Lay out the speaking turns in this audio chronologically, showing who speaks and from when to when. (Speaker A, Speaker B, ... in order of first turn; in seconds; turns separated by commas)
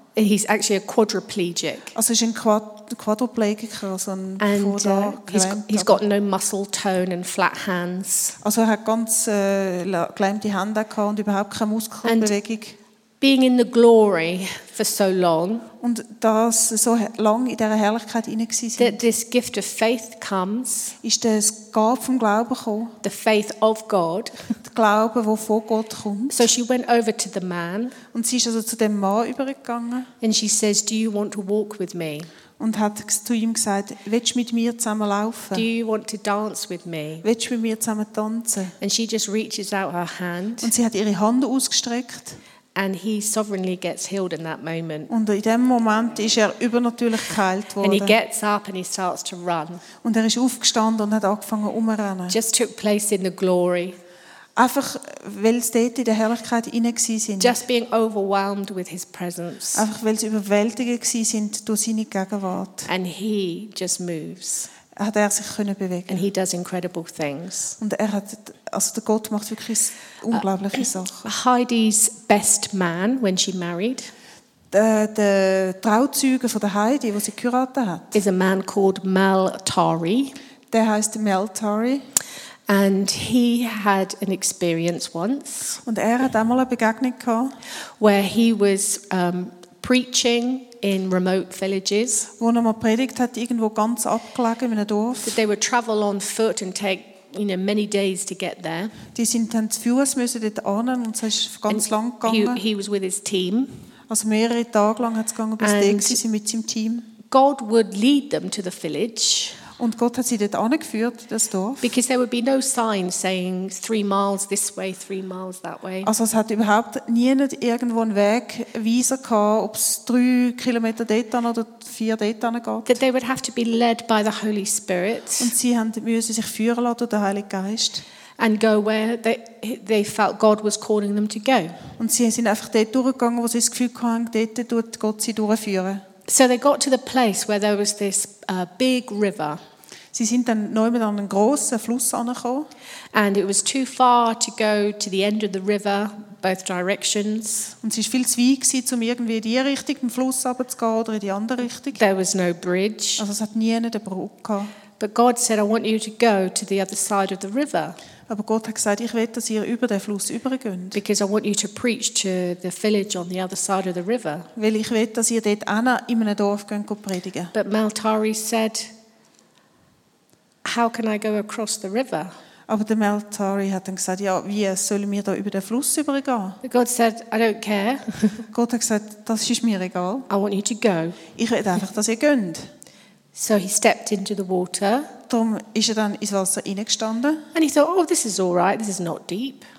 Speaker A: 0.1-1.9, Speaker B: 1.9-6.0, Speaker A: 4.4-8.4, Speaker B: 8.4-12.8, Speaker A: 12.0-12.3, Speaker A: 13.2-15.7, Speaker B: 15.8-19.0, Speaker A: 18.8-20.9, Speaker B: 21.0-22.9, Speaker A: 23.0-24.5, Speaker B: 24.6-26.5, Speaker A: 26.3-28.0, Speaker B: 28.1-30.1, Speaker A: 30.2-32.3, Speaker B: 32.6-35.6, Speaker A: 35.5-37.2, Speaker B: 37.2-38.7, Speaker A: 38.8-40.7, Speaker B: 40.6-42.4, Speaker A: 42.7-45.1, Speaker B: 45.1-48.1, Speaker A: 47.8-49.8, Speaker B: 50.0-52.4, Speaker A: 52.3-54.0, Speaker B: 54.5-57.6, Speaker A: 57.4-59.9, Speaker B: 59.7-62.9, Speaker A: 62.9-64.7, Speaker B: 65.0-66.2, Speaker A: 66.1-67.8, Speaker B: 67.8-71.3, Speaker A: 71.2-74.1, Speaker B: 74.7-78.2, Speaker A: 78.1-80.3, Speaker B: 80.7-82.0, Speaker A: 82.7-85.8, Speaker B: 85.8-87.5, Speaker A: 88.0-92.3, Speaker B: 92.4-95.4, Speaker A: 95.2-98.9, Speaker B: 99.1-102.6, Speaker A: 101.7-103.7, Speaker B: 104.1-107.1, Speaker A: 105.6-106.2, Speaker A: 107.3-109.6, Speaker B: 109.8-111.9, Speaker A: 111.8-116.1, Speaker B: 116.0-123.0, Speaker A: 122.8-125.5, Speaker B: 125.4-128.0, Speaker A: 128.4-131.8, Speaker B: 132.0-136.0, Speaker A: 136.3-139.6, Speaker B: 140.1-142.7, Speaker A: 143.1-147.7, Speaker B: 147.8-152.0, Speaker A: 151.9-153.2, Speaker B: 153.2-154.7, Speaker A: 155.0-157.9, Speaker B: 158.3-161.0, Speaker A: 160.9-164.5, Speaker B: 164.6-167.5, Speaker A: 167.5-168.9, Speaker A: 170.6-172.3, Speaker B: 172.7-176.6, Speaker A: 176.6-178.4, Speaker B: 178.5-180.3, Speaker A: 180.3-181.2, Speaker B: 181.3-182.7, Speaker A: 183.3-185.1, Speaker B: 185.3-187.4, Speaker A: 187.5-189.6